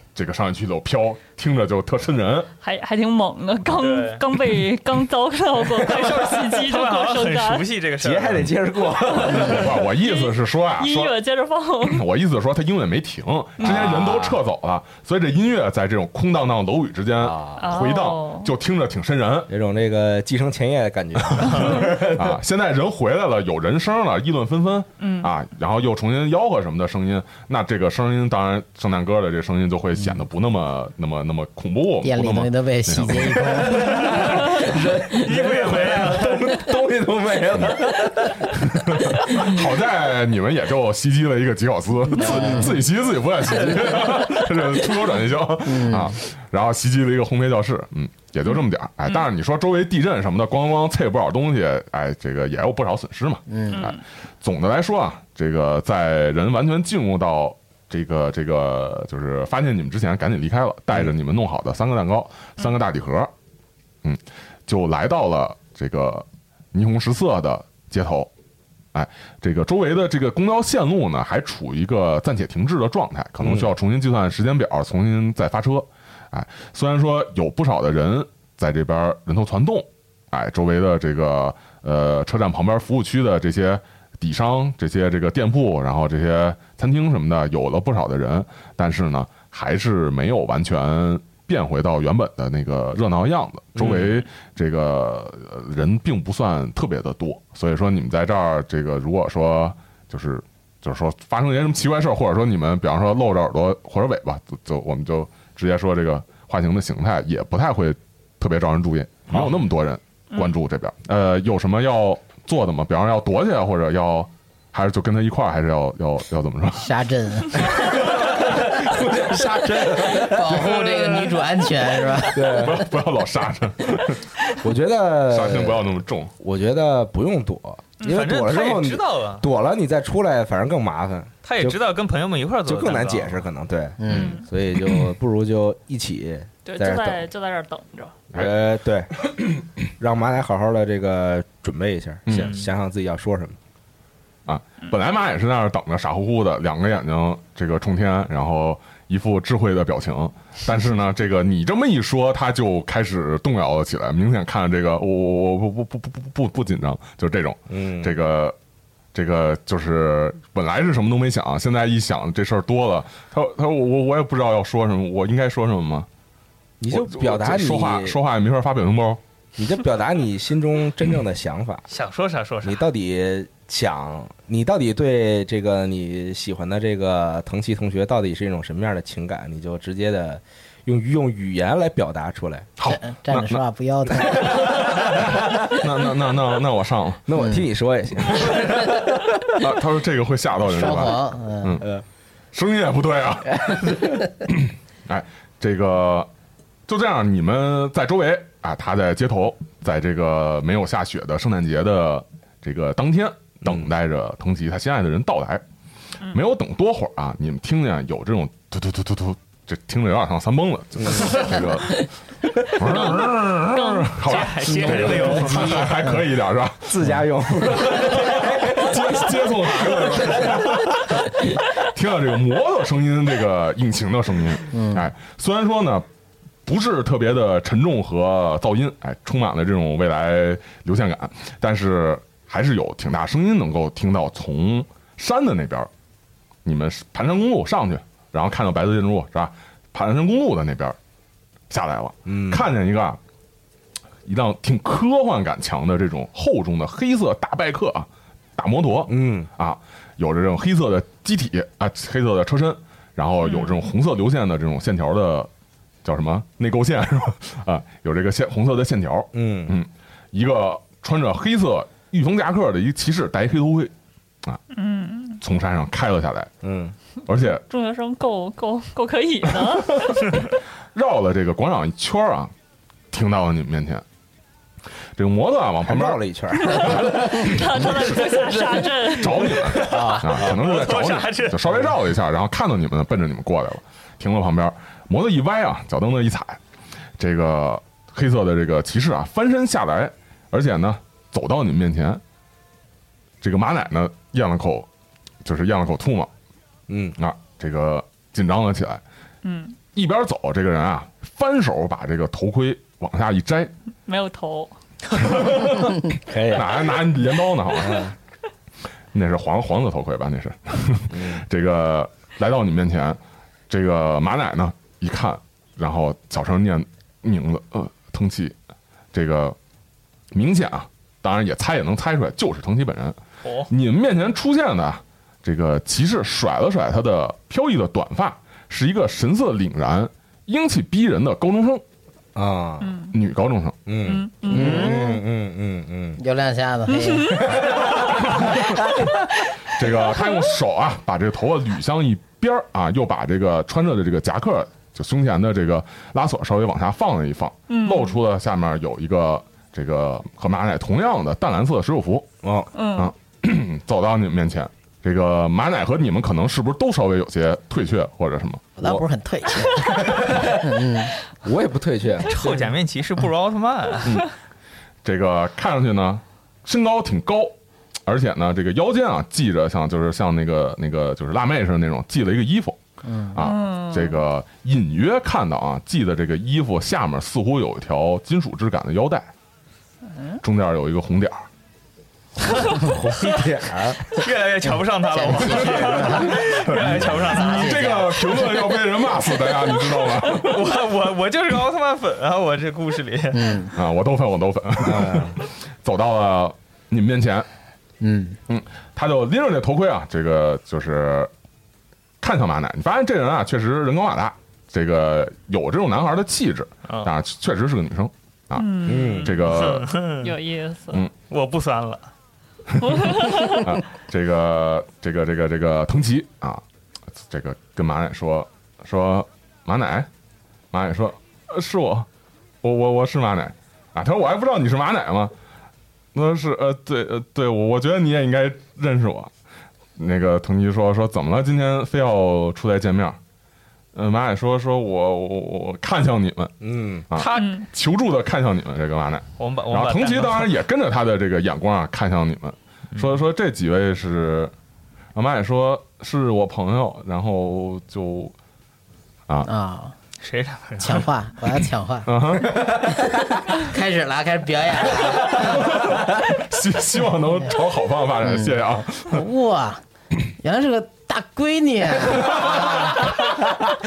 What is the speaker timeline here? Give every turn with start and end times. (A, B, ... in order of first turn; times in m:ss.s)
0:00.1-0:02.5 A
0:02.6-0:07.7 B
0:03.7-0:04.2 C
0:05.8-0:08.5 C
0:08.0-0:09.8 D
0:09.3-0:11.1 A
0:09.3-0:12.0 B
0:11.8-0:19.5 A
0:13.6-0:14.4 D
0:17.2-0:17.7 D
0:17.6-0:18.5 B
0:19.5-0:22.4 D
0:21.4-0:33.7 A
0:21.5-0:21.8 C
0:25.0-0:25.3 B
0:32.0-0:33.9 E
0:33.3-0:39.6 D
0:34.0-0:36.7 C
0:38.6-1:03.3 A
0:42.2-0:42.7 D
0:42.2-0:42.7 E
0:43.7-0:44.0 D
0:45.6-0:46.1 E
0:53.5-0:53.8 E
0:53.7-0:54.0 B
1:04.0-1:08.3 A
1:08.9-1:56.9 A
1:13.4-1:13.7 D
1:33.8-1:34.2 D
1:56.8-1:57.8 E
1:57.6-2:01.3 D
2:00.1-2:02.8 E
2:02.3-2:02.8 D
2:02.4-2:04.2 A
2:04.6-2:05.8 D
2:05.3-2:06.3 A
2:06.4-2:11.8 D
2:08.0-2:09.5 C
2:11.4-2:13.4 C
2:12.6-2:17.3 D
2:14.0-2:14.3 E
2:14.1-2:14.4 B
2:16.6-2:18.2 B
2:18.3-2:23.6 D
2:22.3-2:22.6 A
2:22.3-2:22.7 C
2:24.4-2:38.6 A
2:37.7-2:38.1 D
2:39.1-2:46.1 A
2:46.8-2:48.2 D
2:46.9-2:49.2 A
2:49.6-2:51.8 D
2:51.9-2:52.8 C
2:52.6-3:02.7 D
3:02.8-3:03.6 A
3:02.9-3:04.8 E
3:04.3-3:05.8 D
3:05.7-3:07.3 A
3:07.3-3:09.5 D
3:07.4-3:07.6 E
3:09.6-3:11.8 A
3:10.7-3:11.8 E
3:12.5-3:16.3 A
3:13.6-3:14.1 D
3:16.9-3:25.6 A
3:26.3-3:32.0 A
3:31.0-3:31.5 D
3:32.7-3:37.2 A
3:32.9-3:34.2 B
3:34.2-3:35.9 C
3:34.8-3:35.8 D
3:36.9-3:41.1 D
3:37.7-3:41.2 A
3:41.8-3:46.0 A
3:44.7-3:45.0 E
3:46.6-3:55.9 A
3:56.6-4:01.0 A
4:01.7-4:03.2 A
4:02.2-4:02.6 D
4:04.2-4:15.5 A
4:09.1-4:09.5 D
4:13.5-4:13.7 B
4:16.0-4:23.9 A
4:19.3-4:19.8 D
4:24.7-4:25.4 B
4:25.4-4:26.5 A
4:26.6-4:26.9 D
4:27.3-4:27.6 A
4:27.6-4:30.4 B
4:29.6-4:30.2 A
4:30.9-4:32.5 A
4:33.1-4:34.0 A
4:35.2-4:37.3 A
4:35.8-4:40.5 D
4:36.6-4:39.8 B
4:39.1-4:46.6 A
4:39.9-4:40.2 E
4:40.4-4:41.6 C
4:47.2-4:52.2 A
4:53.4-4:54.9 A
4:55.4-4:56.3 A
4:56.9-4:57.2 D
4:57.2-4:59.0 A
4:59.4-4:59.8 B
4:59.9-5:03.7 A
5:04.0-5:04.7 B
5:05.1-5:05.9 A
5:05.2-5:05.6 B
5:06.2-5:06.9 D
5:06.5-5:08.1 A
5:07.8-5:08.1 D
5:09.1-5:18.6 A
5:11.1-5:11.4 D
5:19.1-5:19.6 A
5:20.3-5:23.2 A
5:23.4-5:23.7 C
5:23.7-5:31.8 A
5:32.3-5:33.0 D
5:32.8-5:33.1 B
5:33.1-5:33.8 A
5:33.8-5:36.2 D
5:34.0-5:35.1 B
5:34.5-5:35.2 E
5:36.2-5:37.4 E
5:36.9-5:37.4 B
5:37.3-5:39.2 D
5:39.7-5:52.3 A
5:47.7-5:48.2 B
5:52.4-5:52.7 D
5:52.7-5:53.1 B
5:53.0-5:58.7 A
5:58.8-6:01.1 E
5:58.8-6:00.9 D
6:01.4-6:02.7 D
6:02.2-6:04.2 C
6:05.0-6:12.8 A
6:13.0-6:13.4 E
6:13.3-6:19.3 A
6:13.4-6:14.2 B
6:20.4-6:21.4 A
6:22.7-6:24.0 D
6:24.1-6:27.8 C
6:25.1-6:26.4 E
6:25.5-6:26.3 D
6:26.7-6:30.6 A
6:27.3-6:28.2 E
6:30.3-6:33.6 C
6:33.3-6:33.7 E
6:33.8-6:37.5 A
6:34.8-6:35.4 D
6:38.0-6:38.4 E
6:38.5-6:41.3 A
6:42.2-6:49.9 A
6:48.5-6:49.6 B
6:48.8-6:49.3 D
6:49.4-6:50.4 C
6:50.2-6:51.1 B
6:51.3-6:52.1 C
6:52.8-6:56.6 A
6:52.8-6:53.7 B
6:57.1-7:00.1 A
7:00.7-7:02.1 A
7:02.6-7:05.3 A
7:06.1-7:09.3 A
7:10.0-7:13.2 A
7:13.9-7:16.5 A
7:16.6-7:17.0 D
7:17.1-7:24.5 A
7:17.1-7:17.6 C
7:17.3-7:17.6 B
7:19.4-7:20.5 C
7:22.9-7:23.2 C
7:25.1-7:28.3 A
7:29.4-7:29.9 E
7:30.2-7:31.0 C
7:30.8-7:32.4 E
7:32.0-7:32.7 A
7:33.5-7:35.7 E
7:35.4-7:39.2 A
7:38.2-7:39.8 E
7:40.4-7:43.2 E